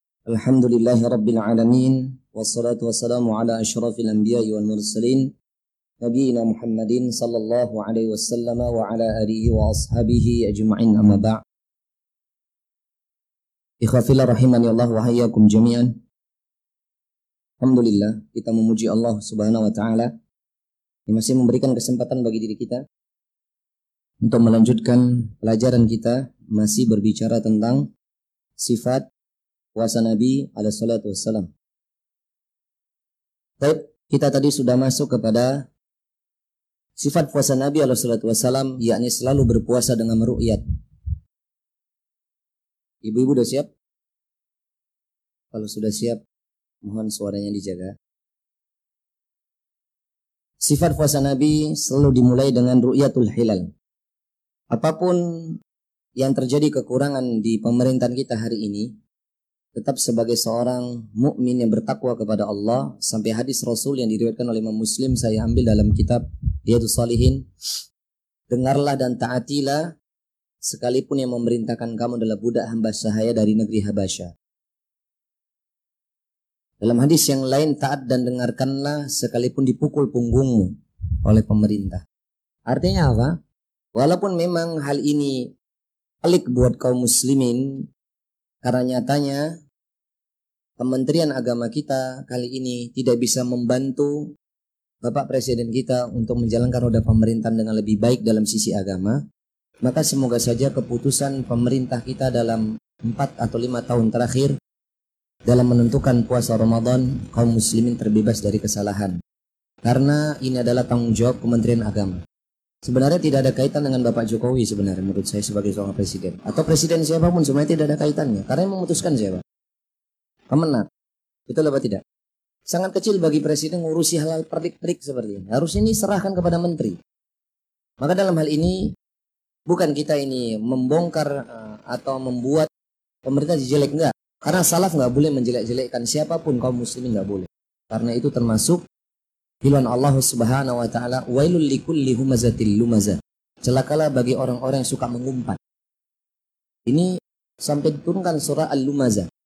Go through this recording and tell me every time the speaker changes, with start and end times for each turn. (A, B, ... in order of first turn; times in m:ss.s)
0:00.3-0:05.3 A
0:06.0-0:11.4 A
0:13.8-0:15.9 A
0:17.6-0:20.1 A
0:21.1-0:22.8 A
0:24.2-0:27.9 A
0:28.6-0:29.1 A
0:29.7-0:31.5 A
0:33.6-0:35.6 A
0:37.0-0:40.6 A
0:43.0-0:43.7 A
0:45.5-0:46.2 A
0:46.8-0:47.9 A
0:50.6-0:53.7 A
0:54.7-0:55.2 A
0:56.2-0:58.9 A
0:59.7-1:07.4 A
1:08.5-1:09.8 A
1:10.7-1:14.3 A
1:16.8-1:20.7 A
1:21.2-1:22.0 A
1:22.7-1:23.4 A
1:23.9-1:25.5 A
1:26.2-1:27.8 A
1:28.6-1:29.4 A
1:30.8-1:34.3 A
1:35.0-1:39.2 A
1:39.8-1:44.5 A
1:45.5-1:49.2 A
1:49.8-1:52.2 A
1:52.8-1:59.4 A
2:00.5-2:00.8 A
2:01.5-2:02.0 A
2:02.7-2:07.0 A
2:08.0-2:08.8 A
2:09.7-2:12.7 A
2:13.2-2:18.8 A
2:19.6-2:25.6 A
2:27.6-2:29.3 A